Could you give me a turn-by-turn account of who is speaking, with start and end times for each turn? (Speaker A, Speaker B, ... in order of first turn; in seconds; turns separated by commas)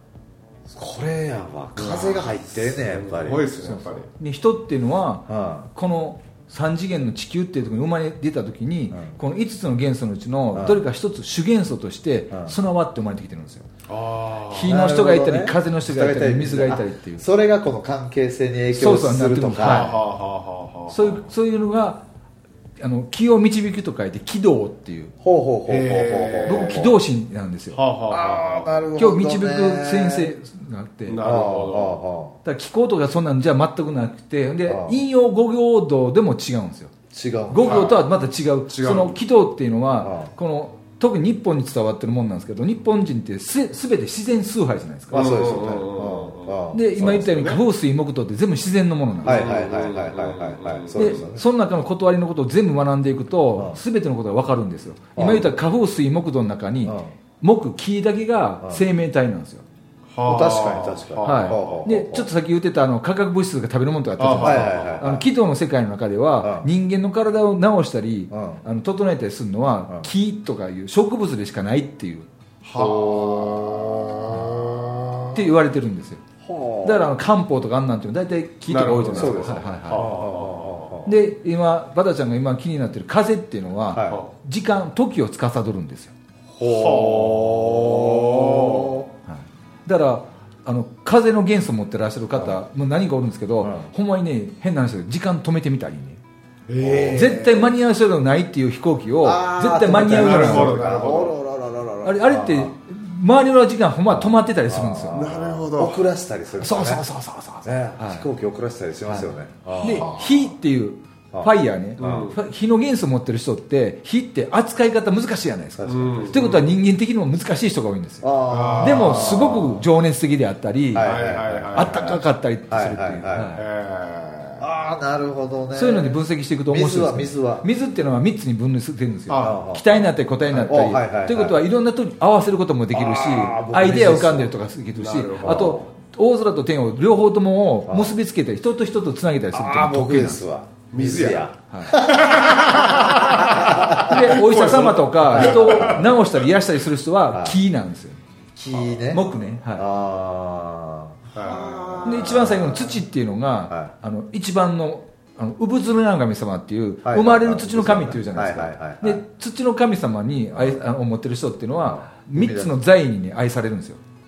Speaker A: 0.7-3.6, Speaker B: 1.8-4.1, Speaker C: 3.6-13.7, Speaker A: 5.3-5.7, Speaker A: 8.9-9.2, Speaker A: 10.5-10.8, Speaker A: 12.3-12.6, Speaker B: 13.9-14.8, Speaker C: 14.5-17.2, Speaker A: 14.7-19.9, Speaker C: 18.7-20.0, Speaker B: 19.6-21.2, Speaker C: 20.9-22.0, Speaker C: 22.8-25.1, Speaker A: 25.2-27.0, Speaker B: 25.7-26.9, Speaker C: 26.5-27.8, Speaker B: 27.7-28.7, Speaker A: 28.1-30.3, Speaker C: 29.0-31.2, Speaker B: 31.1-32.0, Speaker A: 31.2-32.4, Speaker C: 32.4-36.9, Speaker A: 34.6-35.0, Speaker A: 37.1-38.0, Speaker C: 37.5-45.5, Speaker B: 37.6-38.1, Speaker B: 38.7-39.2, Speaker A: 40.0-40.3, Speaker A: 45.1-47.2, Speaker B: 45.1-47.6, Speaker C: 46.7-49.5, Speaker B: 49.2-51.3, Speaker A: 49.2-51.5, Speaker C: 51.0-59.6, Speaker A: 53.5-53.8, Speaker A: 55.2-55.6, Speaker A: 56.8-57.2, Speaker B: 60.1-61.9, Speaker A: 60.2-62.3, Speaker C: 61.2-72.3, Speaker B: 64.2-65.1, Speaker A: 64.4-65.3, Speaker A: 66.4-66.7, Speaker A: 68.3-68.6, Speaker B: 72.6-75.4, Speaker A: 72.8-75.4, Speaker C: 75.3-76.2, Speaker A: 76.4-77.1, Speaker C: 76.8-80.1, Speaker B: 78.7-80.9, Speaker A: 79.1-81.2, Speaker C: 81.1-86.1, Speaker A: 83.9-84.2, Speaker B: 84.0-84.3, Speaker A: 86.5-89.1, Speaker B: 86.6-89.1, Speaker C: 89.3-96.2, Speaker A: 93.6-93.9, Speaker B: 96.7-97.6, Speaker A: 96.8-97.7, Speaker C: 97.1-100.8, Speaker A: 99.2-102.8, Speaker B: 99.9-101.4, Speaker C: 102.0-105.2, Speaker A: 104.1-107.1, Speaker B: 105.1-106.0, Speaker C: 106.6-108.3, Speaker A: 107.6-110.3, Speaker B: 109.7-110.4, Speaker C: 109.8-121.2, Speaker A: 111.3-112.3, Speaker B: 112.0-112.4, Speaker A: 115.8-116.4, Speaker B: 115.8-116.7, Speaker A: 118.2-119.8, Speaker B: 118.5-119.6, Speaker A: 120.9-123.5, Speaker B: 121.0-122.2, Speaker C: 121.7-123.6, Speaker B: 123.5-124.7, Speaker A: 124.6-127.7, Speaker C: 125.7-140.4, Speaker B: 129.3-129.7, Speaker A: 129.4-130.0, Speaker A: 130.5-131.6, Speaker A: 132.9-134.6, Speaker B: 134.9-135.8, Speaker A: 135.4-135.9, Speaker A: 137.9-138.1, Speaker A: 139.5-144.4, Speaker B: 140.9-146.4, Speaker C: 141.7-142.0, Speaker C: 144.0-148.2, Speaker A: 145.3-146.1, Speaker A: 147.3-147.6, Speaker A: 148.6-153.0, Speaker C: 149.1-149.8, Speaker B: 151.3-152.7, Speaker C: 152.1-164.0, Speaker A: 153.7-153.9, Speaker A: 157.0-159.2, Speaker A: 160.5-160.8, Speaker A: 161.8-162.8